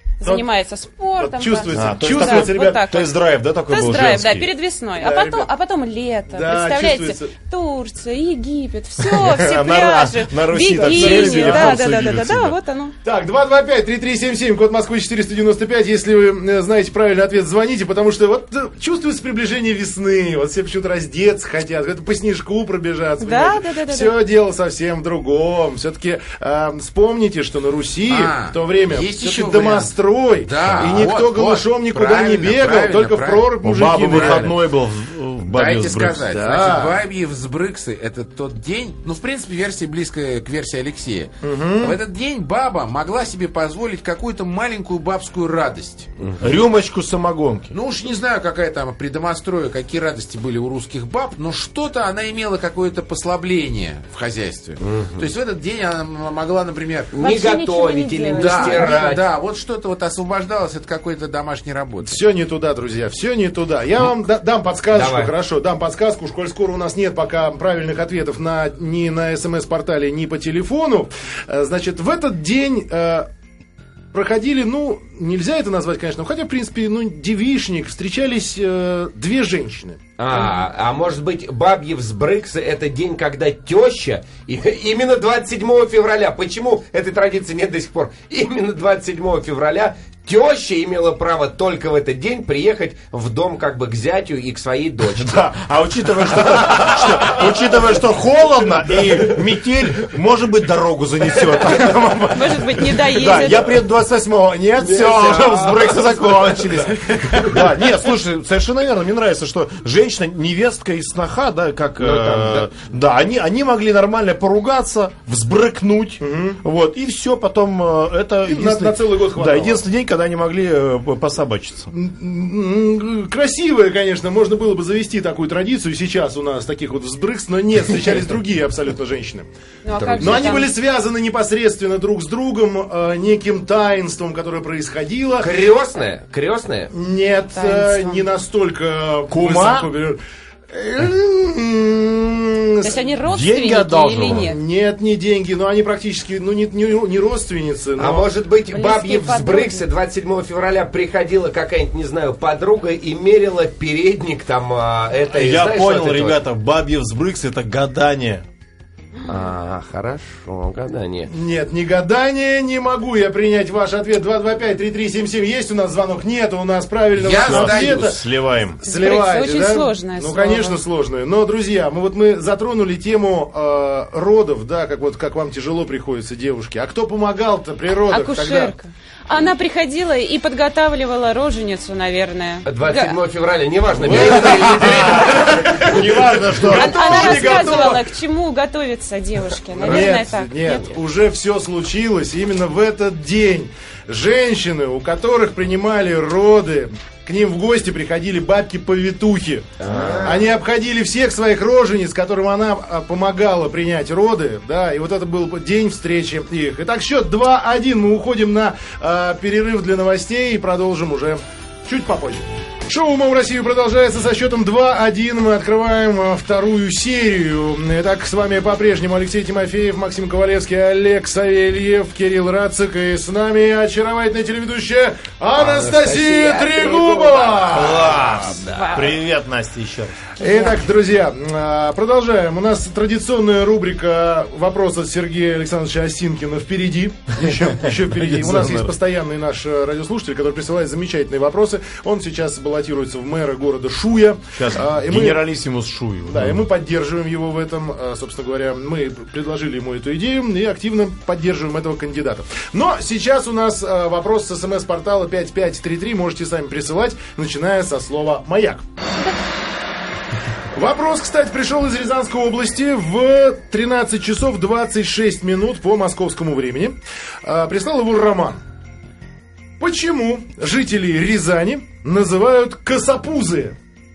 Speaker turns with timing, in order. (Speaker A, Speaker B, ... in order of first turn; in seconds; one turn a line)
Speaker A: 0.2-12.9
Speaker B: 0.2-0.5
Speaker B: 1.2-2.8
Speaker C: 1.7-4.5
Speaker B: 5.0-5.5
Speaker B: 6.3-7.3
Speaker C: 9.0-12.6
Speaker B: 10.8-11.8
Speaker B: 13.0-34.5
Speaker A: 23.2-24.1
Speaker D: 28.1-34.5
Speaker C: 33.6-36.3
Speaker D: 35.5-46.1
Speaker B: 36.3-37.0
Speaker B: 41.4-42.0
Speaker C: 46.4-47.7
Speaker D: 47.7-57.1
Speaker E: 54.8-55.2
Speaker E: 57.1-59.2
Speaker A: 57.2-59.1
Speaker D: 58.3-62.2
Speaker B: 62.0-73.3
Speaker E: 64.9-65.3
Speaker B: 74.1-80.0
Speaker E: 80.2-95.4
Speaker A: 80.3-80.6
Speaker C: 95.2-121.9
Speaker A: 102.3-103.7
Speaker E: 104.8-107.5
Speaker B: 107.1-107.6
Speaker E: 112.0-112.8
Speaker B: 116.2-116.6
Speaker B: 118.4-119.8
Speaker B: 121.9-129.5
Speaker A: 129.8-130.7
Speaker E: 129.9-130.6
Speaker B: 130.2-135.5
Speaker E: 135.4-136.9
Speaker B: 136.9-140.2
Speaker A: 137.5-138.3
Speaker C: 139.3-139.9
Speaker B: 140.7-143.0
Speaker A: 142.8-144.6
Speaker C: 143.2-144.5
Speaker B: 144.2-148.3
Speaker E: 148.0-156.4
Speaker A: 148.7-149.8
Speaker C: 155.3-158.4
Speaker E: 159.2-161.3
Speaker B: 161.3-168.2
Speaker D: 167.1-168.2
Speaker C: 167.4-168.8
Speaker B: 168.7-178.7
Speaker A: 168.8-170.8
Speaker A: 178.1-183.2
Speaker E: 182.6-185.5
Speaker B: 184.0-188.1
Speaker C: 184.2-187.8
Speaker A: 186.6-191.0
Speaker B: 189.8-228.4
Speaker E: 199.8-200.5
Speaker C: 199.9-200.4
Speaker E: 225.5-228.6
Speaker C: 227.7-230.2
Speaker A: 228.6-229.2
Speaker B: 230.4-245.4
Speaker A: 230.4-230.8
Speaker C: 237.4-238.9
Speaker C: 244.5-246.7
Speaker B: 246.3-258.8
Speaker B: 260.7-268.6
Speaker B: 269.8-273.8